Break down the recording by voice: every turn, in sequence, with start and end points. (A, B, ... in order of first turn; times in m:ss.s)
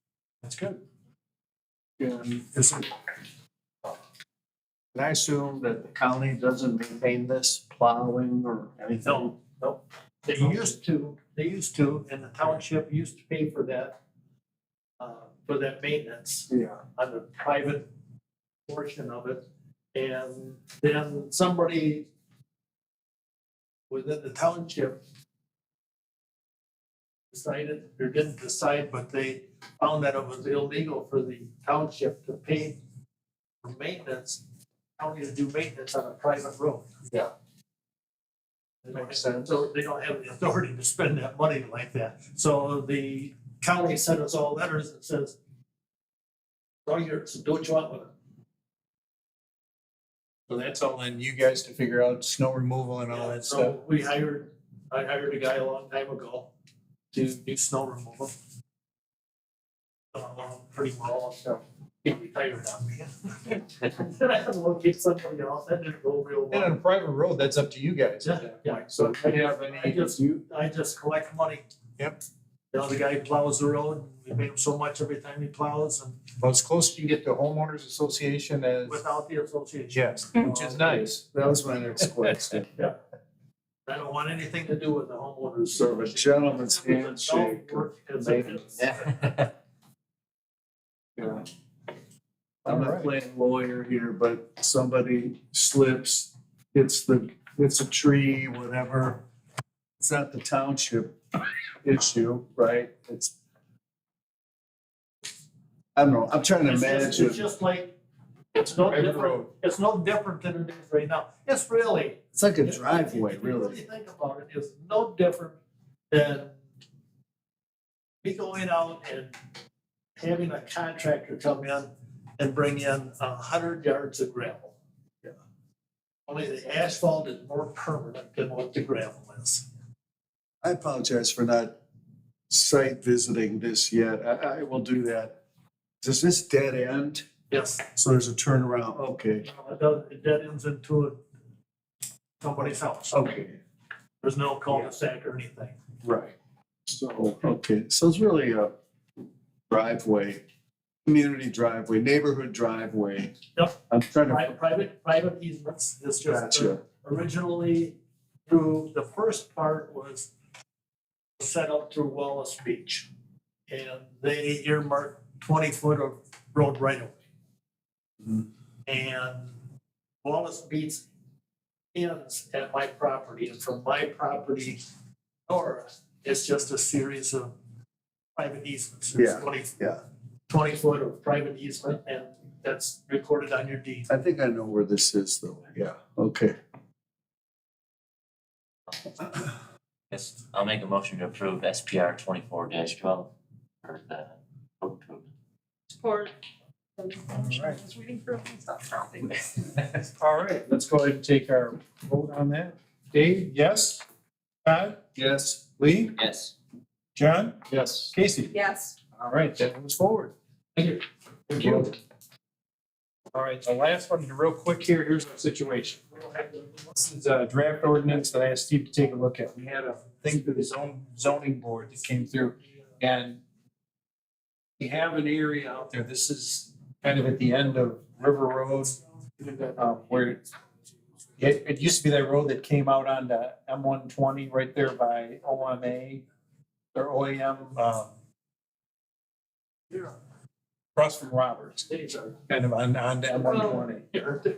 0:00.4-0:00.8 A
0:02.0-0:02.6 B
0:04.9-0:09.3 B
0:09.0-0:14.0 C
0:15.0-0:17.9 C
0:16.5-0:16.8 B
0:18.7-0:22.1 C
0:23.9-0:25.0 C
0:27.3-0:32.8 C
0:33.6-0:34.4 C
0:35.0-0:36.9 C
0:38.8-0:45.4 C
0:39.0-0:39.4 B
0:46.9-0:48.1 C
0:50.5-0:53.8 A
0:53.1-0:56.5 C
0:57.1-0:58.3 C
1:00.1-1:06.8 C
1:06.5-1:10.4 A
1:08.2-1:11.6 C
1:12.7-1:16.2 C
1:16.4-1:19.0 A
1:18.9-1:20.2 C
1:19.9-1:21.2 A
1:20.4-1:22.7 B
1:23.9-1:29.4 C
1:25.7-1:28.8 B
1:31.2-1:31.4 B
1:32.6-1:33.1 A
1:32.7-1:39.2 B
1:40.0-1:41.2 B
1:41.8-1:43.3 B
1:46.0-1:47.4 B
1:46.6-1:47.9 C
1:48.6-1:55.6 C
1:48.7-1:49.5 A
1:52.4-1:53.8 B
1:56.1-1:56.5 C
1:58.2-1:59.4 C
2:00.2-2:04.7 C
2:06.3-2:09.7 C
2:10.6-2:11.8 B
2:12.5-2:15.4 B
2:16.0-2:17.2 B
2:17.5-2:17.8 C
2:17.9-2:19.5 B
2:19.4-2:21.2 C
2:22.4-2:23.2 C
2:23.1-2:23.6 B
2:24.2-2:25.8 C
2:26.0-2:26.3 B
2:26.9-2:28.7 B
2:29.7-2:30.4 B
2:31.1-2:33.4 B
2:33.6-2:40.3 C
2:33.9-2:34.5 B
2:36.3-2:36.8 B
2:41.4-2:43.1 C
2:43.7-2:47.2 C
2:48.9-2:49.5 C
2:50.2-2:51.0 C
2:51.9-2:54.8 C
2:55.5-2:57.5 C
2:58.4-2:59.9 C
2:59.2-3:00.0 B
3:00.5-3:04.1 C
3:04.1-3:06.6 B
3:10.1-3:13.3 D
3:13.8-3:15.3 D
3:15.9-3:16.3 E
3:17.0-3:19.7 E
3:17.4-3:17.8 A
3:20.0-3:24.0 A
3:24.6-3:25.0 A
3:25.2-3:25.6 B
3:25.8-3:26.2 A
3:26.2-3:26.5 D
3:27.2-3:28.5 A
3:27.7-3:28.1 B
3:28.5-3:29.0 E
3:29.2-3:32.0 A
3:33.3-3:43.4 A
3:44.8-3:49.0 A
3:49.6-3:50.4 A
3:51.4-3:56.2 A
3:56.9-3:58.1 A
4:01.0-4:01.9 A
4:02.5-4:04.2 A